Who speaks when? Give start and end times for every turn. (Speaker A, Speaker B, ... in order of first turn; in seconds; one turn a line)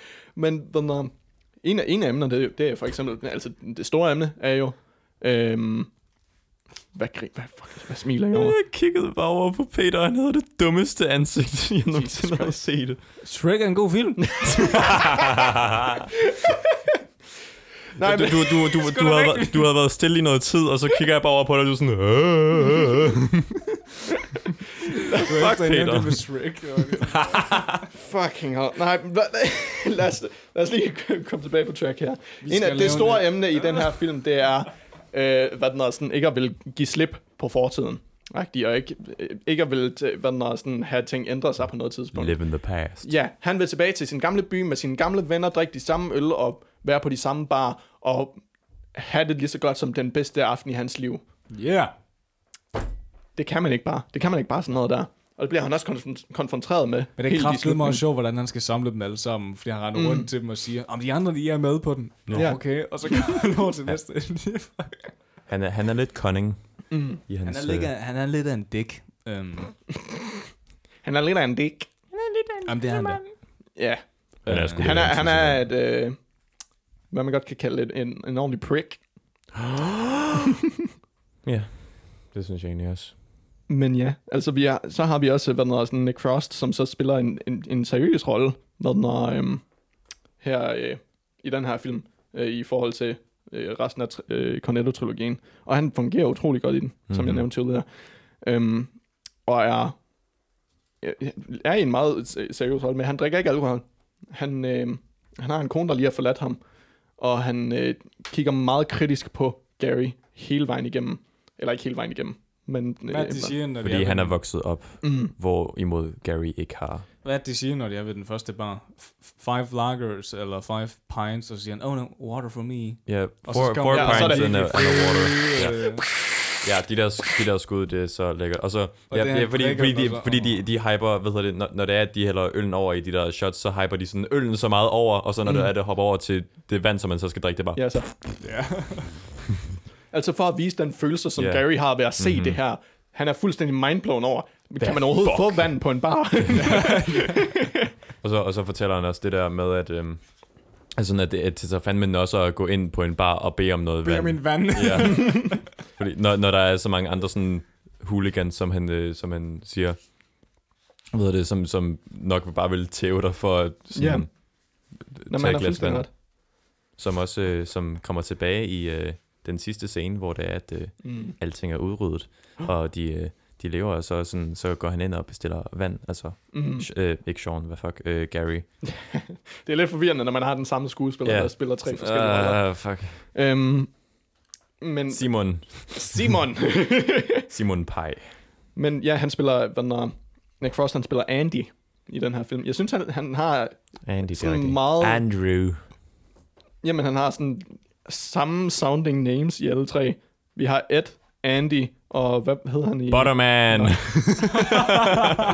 Speaker A: 0.3-5.9
Speaker A: 6.9-8.6
Speaker B: 8.3-13.0
Speaker A: 11.8-12.9
Speaker C: 13.2-14.8
Speaker A: 14.3-15.2
Speaker B: 14.8-16.0
Speaker A: 18.0-19.0
Speaker B: 18.0-23.4
Speaker C: 18.8-19.7
Speaker B: 25.1-26.2
Speaker C: 25.1-27.6
Speaker B: 27.0-27.8
Speaker A: 27.9-48.4
Speaker C: 32.4-33.9
Speaker B: 42.1-43.1
Speaker A: 48.9-51.2
Speaker C: 51.5-51.9
Speaker A: 53.4-58.0
Speaker C: 57.2-65.1
Speaker A: 59.9-60.3
Speaker B: 62.3-62.6
Speaker A: 62.3-63.2
Speaker B: 65.5-67.9
Speaker A: 66.9-67.2
Speaker C: 67.4-69.8
Speaker A: 71.0-73.2
Speaker C: 72.6-73.3
Speaker A: 73.7-76.2
Speaker C: 74.4-74.9
Speaker B: 74.5-75.7
Speaker A: 77.1-79.0
Speaker B: 79.8-80.1
Speaker B: 81.4-83.1
Speaker A: 83.7-89.6
Speaker A: 90.4-97.8
Speaker B: 97.1-97.5
Speaker A: 98.4-98.9
Speaker A: 99.4-100.0
Speaker A: 101.0-106.6
Speaker A: 107.2-113.6
Speaker C: 113.1-114.4
Speaker B: 113.8-117.1
Speaker A: 115.0-115.3
Speaker C: 117.2-126.0
Speaker B: 123.0-138.2
Speaker A: 123.9-125.3
Speaker C: 129.1-130.6
Speaker A: 135.4-135.7
Speaker A: 137.8-138.2
Speaker C: 138.4-139.1
Speaker A: 140.1-147.8
Speaker B: 141.4-142.6
Speaker C: 144.8-145.7
Speaker C: 146.5-147.4
Speaker B: 148.2-160.0
Speaker C: 154.0-155.5
Speaker A: 154.8-155.4
Speaker B: 161.1-164.3
Speaker A: 163.9-166.1
Speaker B: 164.9-178.7
Speaker A: 171.0-171.3
Speaker A: 176.5-176.9
Speaker A: 178.8-184.0
Speaker B: 181.2-183.2
Speaker A: 184.8-187.5
Speaker B: 185.1-186.2
Speaker B: 187.5-188.3
Speaker A: 188.7-195.2
Speaker B: 194.0-195.8
Speaker A: 196.8-204.6
Speaker B: 203.1-205.0